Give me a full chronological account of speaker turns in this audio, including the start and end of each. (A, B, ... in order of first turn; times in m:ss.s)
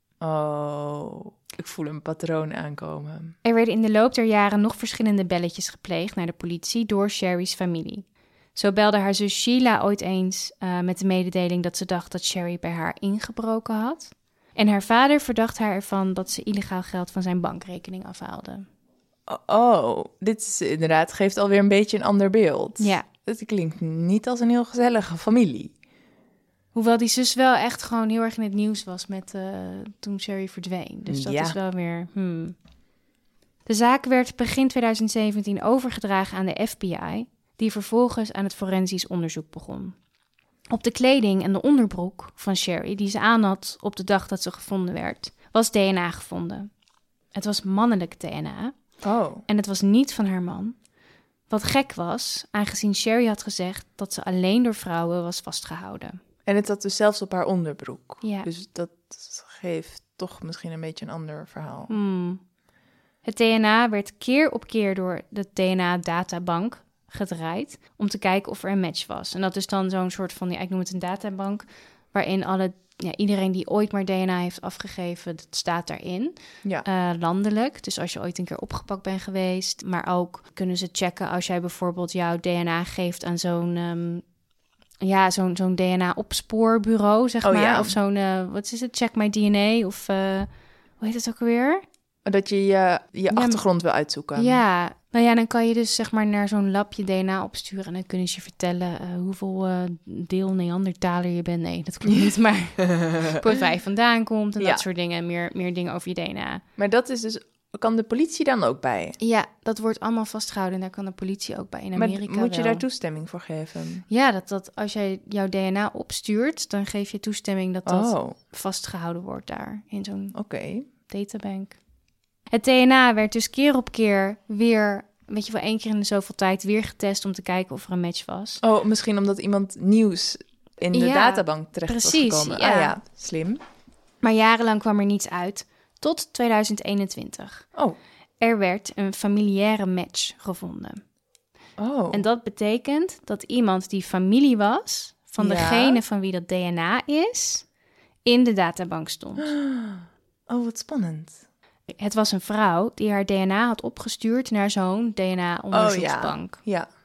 0:00.2-0:03.4 A
0:03.4-0:18.7 B
0:19.3-0:25.7 A
0:22.8-0:23.1 B
0:26.7-0:32.6 B
0:31.1-0:31.6 A
0:33.7-0:40.0 B
0:40.7-0:46.7 B
0:47.3-0:48.7 B
0:49.0-0:49.4 A
0:49.5-0:50.8 B
0:51.5-0:56.2 B
0:56.5-1:01.9 A
0:58.2-0:58.5 B
1:01.9-1:02.4 B
1:03.2-1:24.2 B
1:25.0-1:30.5 B
1:27.4-1:28.0 A
1:31.0-1:31.8 B
1:32.3-1:34.6 A
1:33.3-1:33.6 B
1:34.4-1:46.6 B
1:42.8-1:43.4 A
1:46.8-1:49.2 A
1:49.2-1:52.8 B
1:52.0-1:54.0 A
1:54.1-2:00.4 B
1:57.9-1:58.4 A
2:00.3-2:00.9 A
2:01.1-2:01.8 B
2:02.5-2:08.6 B
2:08.6-2:13.6 A
2:10.9-2:12.9 B
2:14.2-2:17.6 B
2:18.4-2:21.0 B
2:21.8-2:22.2 A
2:22.1-2:27.7 B
2:25.4-2:26.0 A
2:28.2-2:29.5 B
2:29.4-2:31.4 A
2:31.9-2:36.6 B
2:35.7-2:36.9 A